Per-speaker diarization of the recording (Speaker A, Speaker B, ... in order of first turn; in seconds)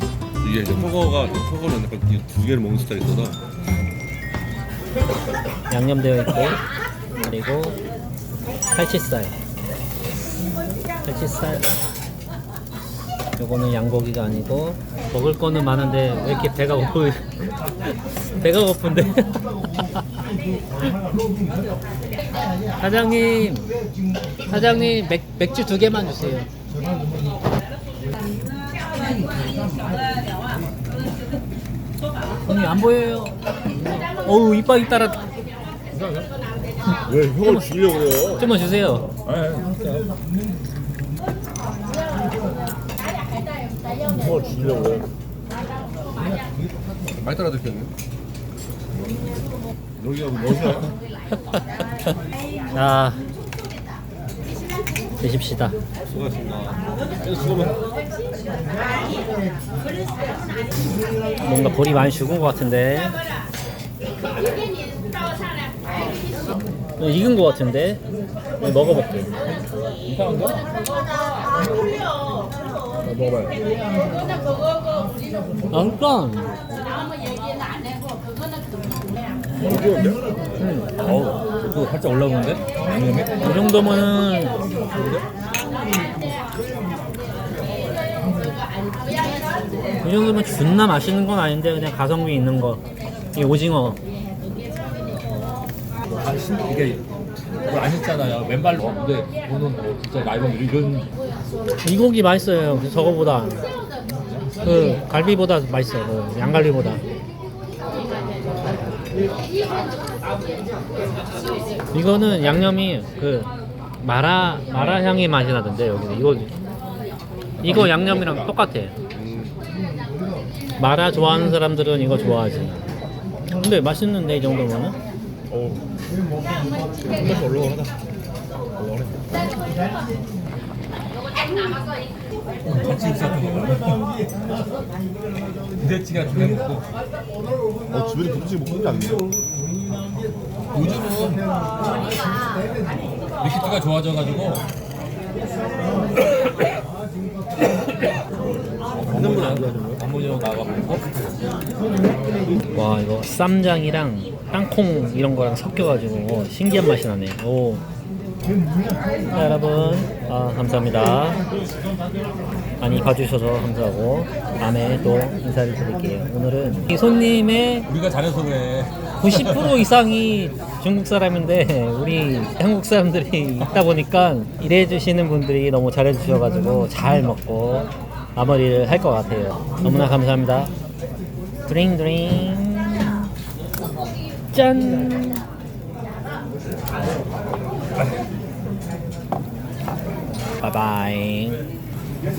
Speaker A: 0.4-3.4, 37.0-38.4, 44.1-45.1, 47.1-47.9, 50.0-50.9, 56.1-57.8, 79.6-80.2, 85.0-85.2, 117.6-118.5, 119.1-119.5, 125.5-125.8, 127.0-127.9, 128.8-129.2, 137.9-139.3, 149.1-150.0
Speaker B: 5.7-6.6, 7.2-7.8, 8.7-9.3, 11.0-11.7, 13.4-20.0, 22.8-23.7, 24.4-26.5, 32.4-33.4, 34.1-35.2, 37.4-37.8, 38.3-39.1, 51.3-52.1, 52.7-53.2, 55.2-55.8, 61.4-63.2, 67.0-68.0, 68.6-69.3, 75.7-76.5, 80.6-80.9, 83.4-84.6, 90.0-92.8, 93.3-94.0, 101.8-103.7, 104.6-107.0, 111.9-116.5, 117.6-118.9, 120.8-122.9, 123.5-125.0, 152.7-157.8, 159.3-161.4, 162.8-167.9, 169.2-180.7, 181.7-183.3, 184.5-185.5, 190.6-191.6
Speaker C: 36.0-36.3, 39.2-40.1, 70.0-70.6, 73.0-73.6, 81.0-83.4, 96.2-97.0, 97.7-101.1, 104.1-104.5, 132.7-134.0, 135.8-136.8, 140.7-141.5, 143.4-144.6, 148.9-151.0, 167.9-169.8